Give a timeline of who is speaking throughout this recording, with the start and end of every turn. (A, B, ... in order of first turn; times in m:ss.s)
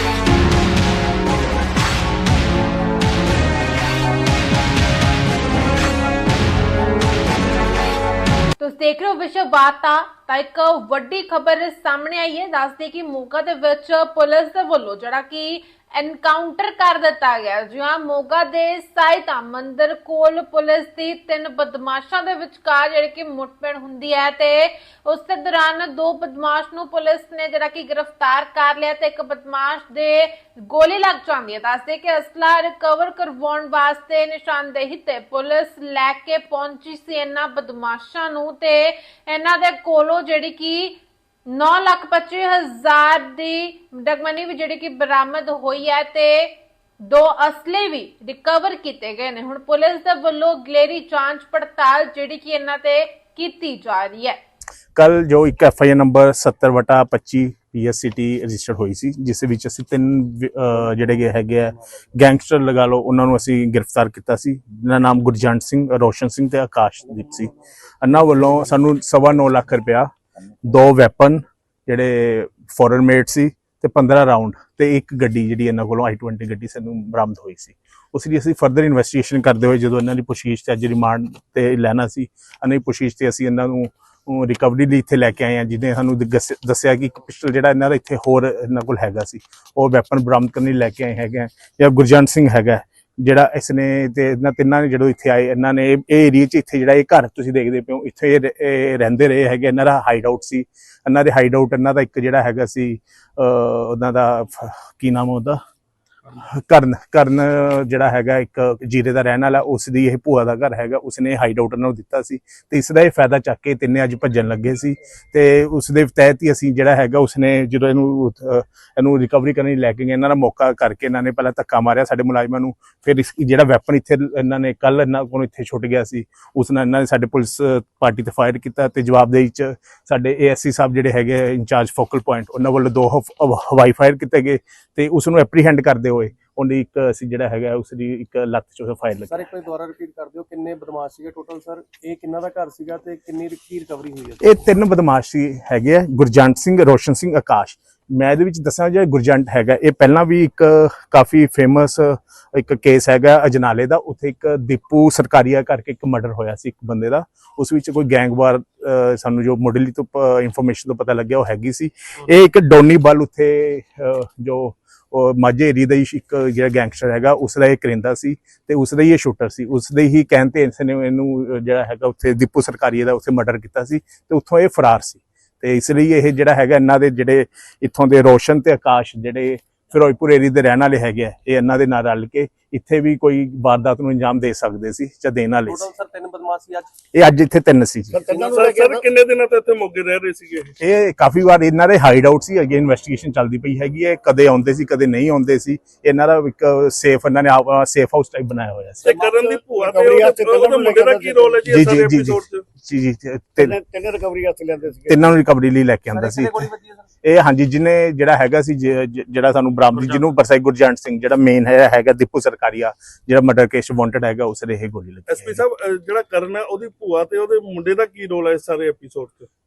0:08.6-0:54.4 A
0:54.9-1:45.6 B
1:46.4-2:19.4 B
2:19.3-2:24.4 C
2:24.4-3:05.8 B
3:05.7-3:06.9 C
3:07.1-3:08.2 B
3:08.1-3:09.0 D
3:08.3-3:10.7 E
3:10.8-3:19.1 B
3:19.0-3:19.6 C
3:19.0-3:22.6 E
3:19.7-3:21.7 D
3:21.6-3:23.7 B
3:23.6-3:25.3 D
3:25.1-3:26.7 B
3:26.1-3:27.1 C
3:27.2-3:35.6 B
3:35.3-3:39.5 E